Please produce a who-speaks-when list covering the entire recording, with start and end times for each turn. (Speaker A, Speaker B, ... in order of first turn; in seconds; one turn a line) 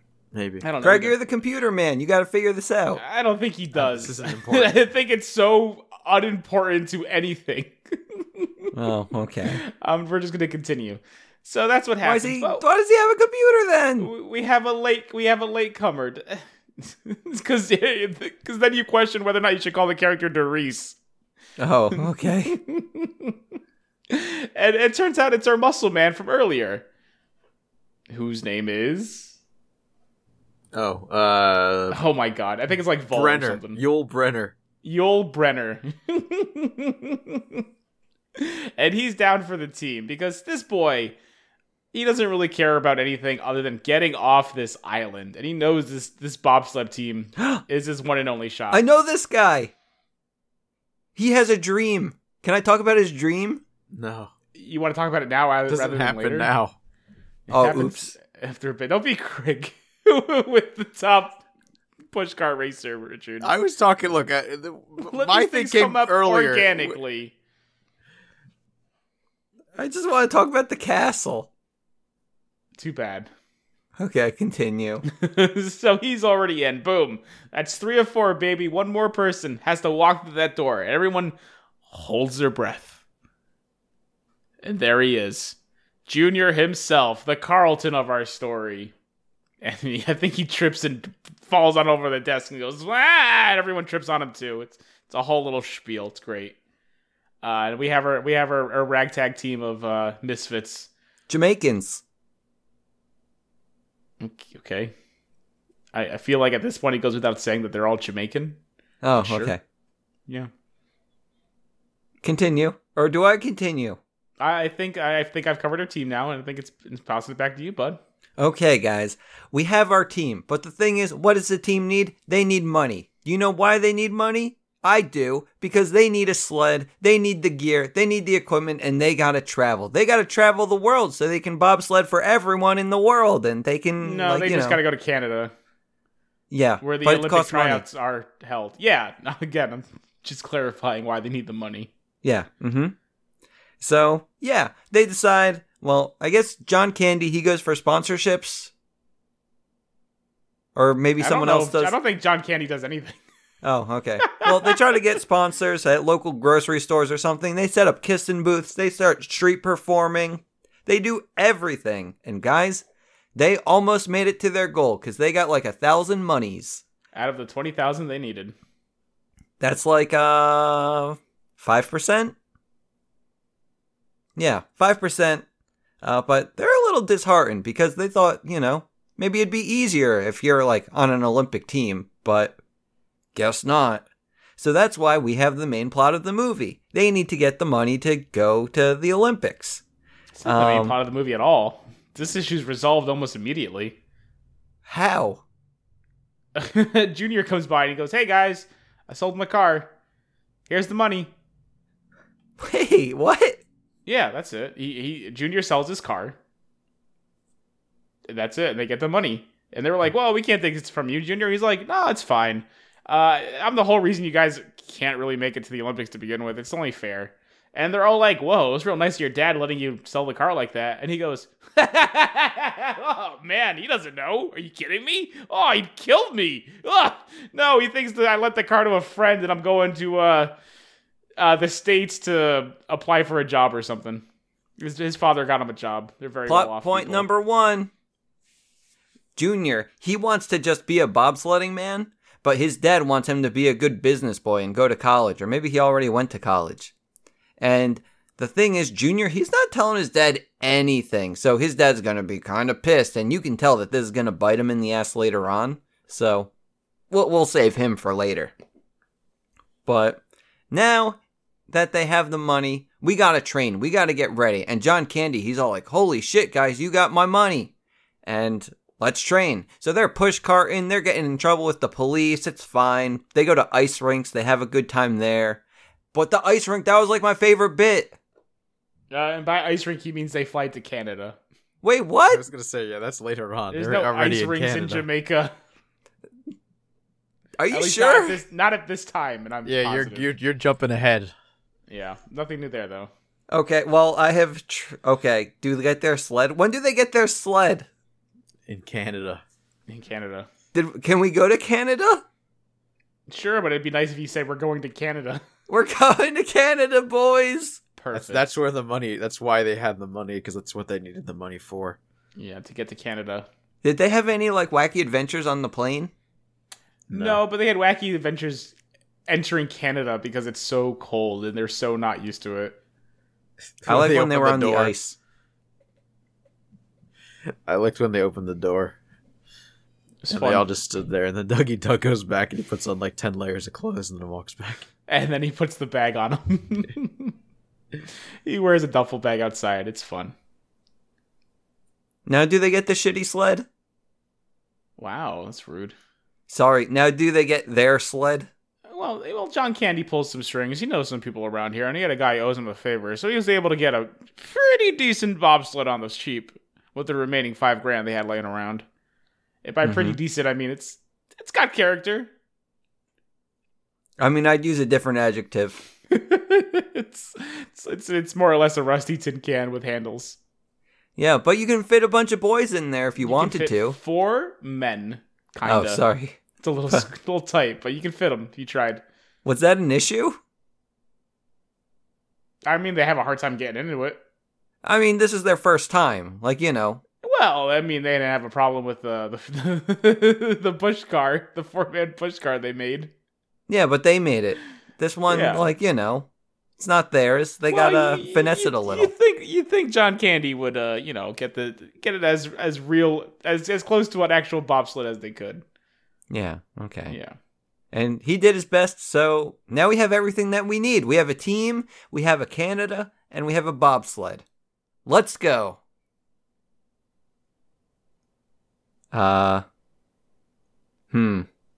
Speaker A: 0.3-0.6
Speaker B: 0.6-1.2
Speaker C: 0.8-3.0
Speaker B: 3.0-8.7
Speaker A: 3.7-4.8
Speaker C: 8.7-9.6
Speaker B: 9.5-12.6
Speaker C: 12.0-14.1
Speaker B: 14.0-21.0
Speaker C: 21.6-22.6
Speaker B: 22.0-23.4
Speaker B: 24.1-26.8
Speaker B: 28.1-29.3
Speaker A: 30.7-32.0
Speaker B: 31.9-33.8
Speaker A: 33.1-34.5
Speaker B: 34.8-37.6
Speaker B: 38.4-41.1
Speaker B: 41.9-48.8
Speaker C: 47.4-47.6
Speaker C: 48.7-49.7
Speaker C: 51.1-53.6
Speaker A: 53.9-54.3
Speaker B: 54.5-56.5
Speaker A: 55.7-56.7
Speaker B: 57.5-61.4
Speaker C: 57.5-58.1
Speaker B: 62.1-63.5
Speaker A: 63.4-67.0
Speaker B: 65.0-67.3
Speaker C: 69.8-71.5
Speaker B: 72.8-73.3
Speaker C: 74.0-75.0
Speaker B: 75.1-81.3
Speaker B: 81.9-83.0
Speaker B: 84.6-88.9
Speaker B: 89.6-96.5
Speaker B: 97.4-100.9
Speaker C: 101.3-102.0
Speaker B: 104.2-104.9
Speaker B: 105.9-108.6
Speaker C: 109.0-109.6
Speaker B: 109.2-109.5
Speaker C: 112.2-114.0
Speaker B: 114.4-118.0
Speaker C: 118.4-134.8
Speaker B: 134.0-135.5
Speaker C: 136.5-137.8
Speaker B: 136.8-141.9
Speaker C: 142.2-142.9
Speaker C: 143.8-148.7
Speaker C: 150.7-151.9
Speaker B: 151.2-153.2
Speaker C: 153.6-166.8
Speaker B: 154.2-154.7
Speaker B: 167.1-168.5
Speaker C: 169.6-172.3
Speaker C: 174.3-175.4
Speaker C: 176.0-182.6
Speaker C: 183.3-184.0
Speaker C: 184.6-189.8
Speaker B: 190.3-194.0
Speaker C: 190.4-190.9
Speaker C: 194.8-195.4
Speaker B: 196.6-199.9
Speaker B: 200.7-201.3
Speaker C: 202.6-203.6
Speaker B: 204.1-206.3
Speaker B: 208.3-230.5
Speaker B: 231.4-234.2
Speaker B: 234.8-237.3
Speaker C: 236.5-237.9
Speaker C: 239.3-246.9
Speaker C: 247.6-256.5
Speaker C: 257.1-258.5
Speaker C: 259.9-261.2
Speaker C: 261.7-267.7
Speaker C: 268.2-275.6
Speaker C: 276.1-278.1
Speaker B: 279.1-281.4
Speaker C: 281.8-282.4
Speaker A: 282.3-285.0
Speaker B: 283.7-285.5
Speaker C: 287.6-288.4
Speaker B: 287.7-290.3
Speaker A: 289.6-291.3
Speaker B: 291.9-293.1
Speaker C: 293.5-297.9
Speaker A: 298.7-299.4
Speaker B: 299.9-300.5
Speaker C: 300.7-302.2
Speaker B: 303.3-305.4
Speaker C: 305.7-307.8
Speaker B: 308.0-308.4
Speaker A: 308.1-312.0
Speaker B: 312.4-313.5
Speaker C: 313.8-316.1
Speaker A: 317.1-317.4
Speaker B: 317.1-318.7
Speaker B: 319.3-322.8
Speaker A: 323.8-324.9
Speaker C: 323.9-325.1
Speaker A: 327.7-328.9
Speaker B: 330.2-330.7
Speaker A: 330.3-334.9
Speaker B: 335.1-337.3
Speaker B: 338.4-340.3
Speaker C: 342.2-343.6
Speaker B: 345.0-345.9
Speaker C: 346.5-348.5
Speaker B: 348.9-358.8
Speaker B: 359.6-362.3
Speaker C: 359.8-360.2
Speaker C: 364.2-365.8
Speaker B: 366.1-370.4
Speaker C: 371.2-374.0
Speaker B: 373.2-376.0
Speaker C: 375.6-376.4
Speaker B: 376.6-379.0
Speaker C: 379.4-380.4
Speaker B: 382.6-384.2
Speaker C: 384.8-387.0
Speaker B: 387.2-393.1
Speaker C: 393.7-399.1
Speaker B: 395.3-395.6
Speaker B: 397.7-405.6
Speaker C: 406.3-407.2
Speaker B: 407.1-407.4
Speaker C: 407.9-414.4
Speaker C: 415.1-415.8
Speaker C: 419.1-419.6
Speaker C: 421.1-421.5